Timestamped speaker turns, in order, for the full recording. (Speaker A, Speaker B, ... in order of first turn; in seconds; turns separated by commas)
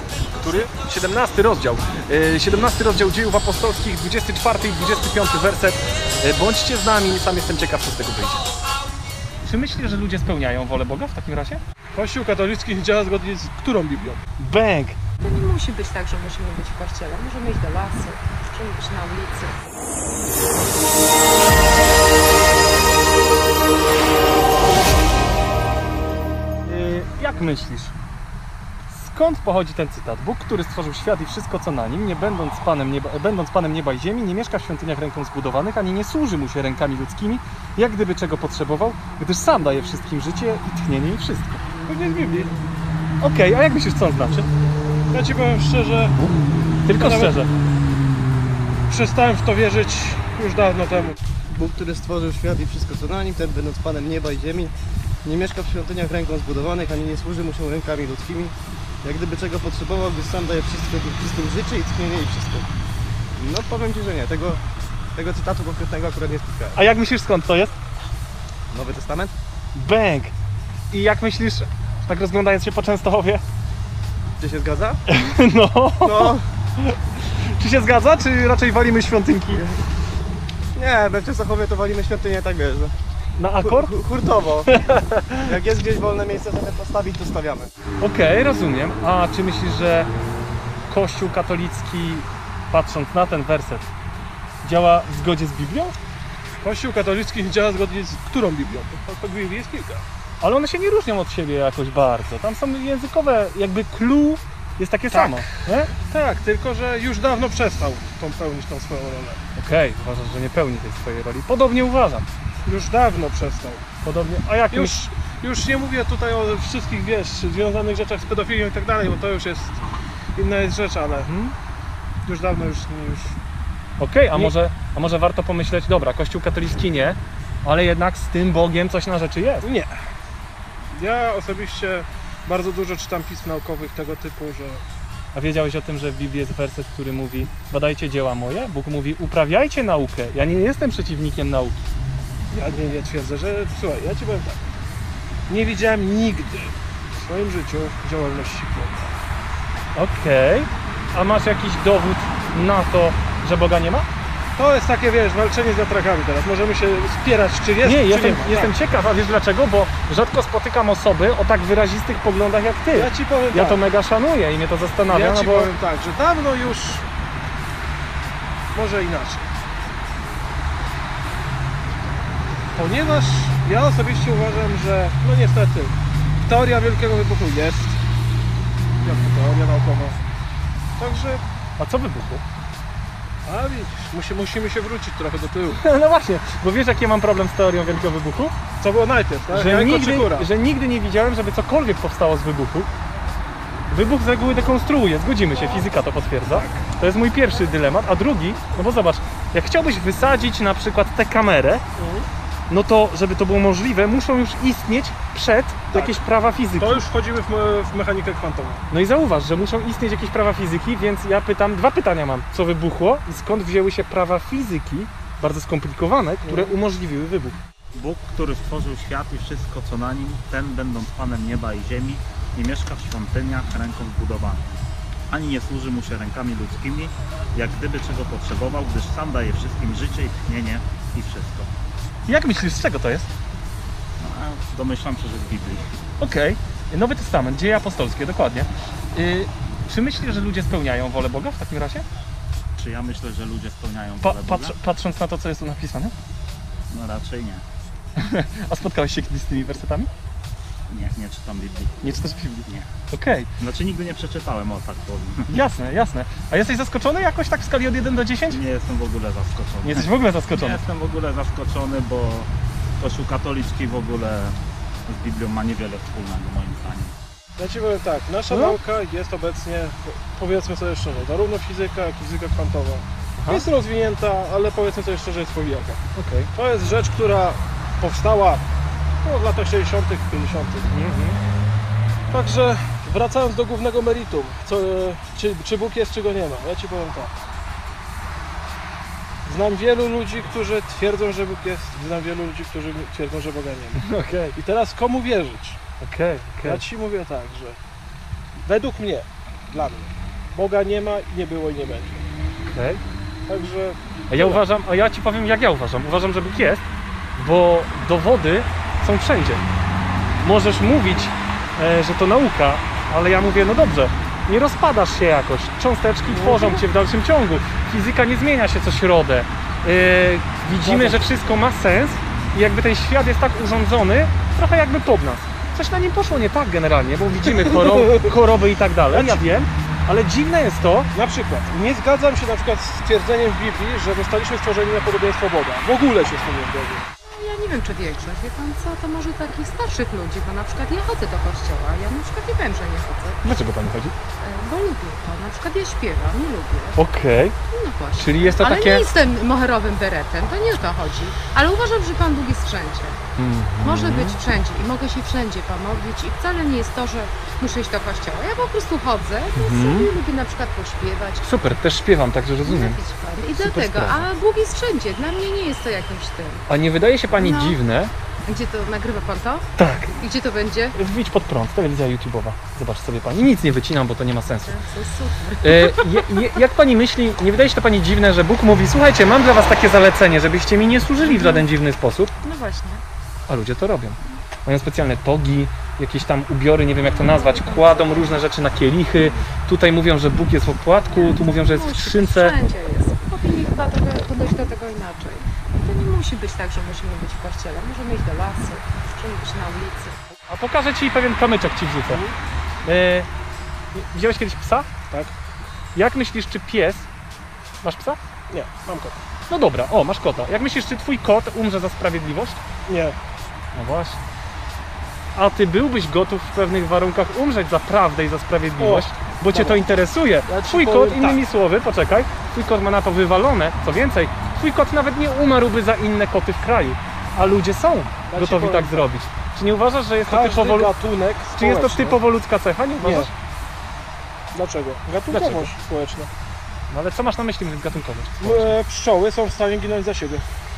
Speaker A: 0.3-8.4, Speaker A: 9.4-11.6, Speaker B: 11.9-14.2, Speaker A: 14.4-15.0, Speaker C: 15.2-19.6, Speaker A: 26.6-27.9, Speaker A: 28.9-41.6, Speaker B: 41.9-42.5, Speaker A: 43.2-44.5, Speaker B: 45.1-46.1, Speaker A: 46.8-47.5, Speaker B: 47.0-47.4, Speaker B: 48.9-51.2, Speaker D: 51.5-54.7, Speaker D: 55.2-62.7, Speaker D: 63.4-64.6, Speaker D: 65.1-66.8, Speaker A: 66.8-67.7, Speaker D: 68.7-69.3, Speaker A: 69.7-70.3, Speaker A: 70.9-73.4, Speaker D: 74.4-75.0, Speaker A: 75.1-79.8, Speaker D: 76.0-76.4, Speaker D: 80.7-82.9, Speaker A: 83.4-83.9, Speaker D: 83.6-84.7, Speaker A: 84.7-85.5, Speaker D: 85.4-87.7, Speaker A: 88.0-90.1, Speaker A: 90.9-93.9, Speaker A: 94.6-96.0, Speaker B: 96.6-100.0, Speaker A: 100.4-105.9, Speaker B: 105.1-109.4, Speaker A: 109.5-112.2, Speaker B: 112.6-113.8, Speaker A: 114.0-115.0, Speaker B: 114.7-119.8, Speaker B: 120.3-121.3, Speaker A: 121.2-121.5, Speaker B: 122.2-123.4, Speaker A: 124.0-129.7, Speaker B: 129.6-129.9, Speaker B: 130.9-134.8, Speaker A: 135.3-141.8, Speaker B: 142.5-144.6, Speaker B: 145.5-149.1, Speaker A: 149.9-154.1, Speaker B: 154.6-158.7, Speaker A: 157.8-165.7, Speaker B: 162.9-163.8, Speaker B: 165.1-167.0, Speaker B: 168.7-169.5, Speaker B: 172.7-175.9, Speaker B: 176.4-178.0, Speaker B: 179.0-180.2, Speaker B: 181.0-181.4, Speaker A: 181.8-182.4, Speaker B: 183.4-185.8, Speaker A: 185.8-188.5, Speaker B: 188.8-190.5, Speaker A: 189.5-192.9, Speaker A: 193.9-201.8, Speaker B: 196.5-196.8, Speaker B: 202.0-202.3, Speaker A: 202.7-207.0, Speaker B: 205.9-206.2, Speaker B: 206.8-208.8, Speaker A: 208.9-217.6, Speaker B: 216.4-216.8, Speaker E: 217.9-224.6, Speaker E: 225.3-231.7, Speaker A: 232.2-233.3, Speaker E: 234.2-235.9, Speaker A: 236.2-242.0, Speaker E: 242.8-244.8, Speaker A: 244.2-246.1, Speaker E: 246.9-247.6, Speaker A: 248.2-250.1, Speaker E: 250.9-252.9, Speaker A: 252.0-253.5, Speaker E: 253.6-255.5, Speaker A: 255.5-258.6, Speaker E: 258.5-262.5, Speaker A: 259.8-260.8, Speaker E: 263.0-264.6, Speaker E: 265.1-267.1, Speaker B: 267.6-276.0, Speaker A: 268.5-268.8, Speaker A: 273.4-273.6, Speaker A: 276.1-276.5, Speaker B: 276.5-278.6, Speaker B: 279.2-280.9, Speaker A: 280.9-281.4, Speaker B: 282.3-287.3, Speaker B: 289.4-295.8, Speaker A: 294.0-294.6, Speaker A: 296.0-296.8, Speaker B: 296.6-297.8, Speaker B: 298.6-302.2, Speaker A: 302.6-303.0, Speaker B: 303.5-304.6, Speaker A: 304.3-306.8, Speaker A: 307.4-309.6, Speaker A: 310.4-331.1, Speaker B: 316.3-316.8, Speaker B: 320.8-321.3, Speaker B: 327.4-328.3, Speaker B: 329.1-329.4, Speaker B: 331.1-337.0, Speaker C: 337.2-343.4, Speaker A: 343.4-344.1, Speaker C: 344.4-347.0, Speaker A: 347.0-347.6, Speaker C: 347.7-353.2, Speaker A: 348.1-349.1, Speaker A: 353.4-354.4, Speaker C: 353.8-361.5, Speaker A: 359.6-360.1, Speaker A: 361.4-363.0, Speaker C: 362.6-366.6, Speaker A: 363.6-364.3, Speaker A: 366.7-368.1, Speaker C: 367.3-367.8, Speaker C: 368.4-370.9, Speaker A: 369.8-370.1, Speaker A: 370.9-374.8, Speaker C: 374.6-376.5, Speaker A: 375.6-382.3, Speaker C: 381.2-381.7, Speaker C: 382.4-383.0, Speaker A: 383.5-392.6, Speaker C: 387.1-388.4, Speaker C: 391.1-400.2, Speaker A: 400.5-402.2, Speaker B: 402.1-402.4, Speaker A: 402.8-403.3, Speaker A: 403.9-404.9, Speaker A: 405.9-407.1, Speaker A: 407.8-408.2, Speaker B: 408.5-409.2, Speaker A: 409.5-412.6, Speaker B: 412.9-413.2, Speaker A: 413.7-414.2, Speaker A: 415.3-430.9, Speaker B: 418.8-419.8, Speaker B: 420.4-421.4, Speaker B: 428.3-429.1, Speaker B: 430.2-432.2, Speaker A: 431.5-433.3, Speaker B: 433.0-433.3, Speaker B: 434.5-436.3, Speaker A: 435.3-435.7, Speaker A: 436.9-438.7, Speaker B: 438.4-440.4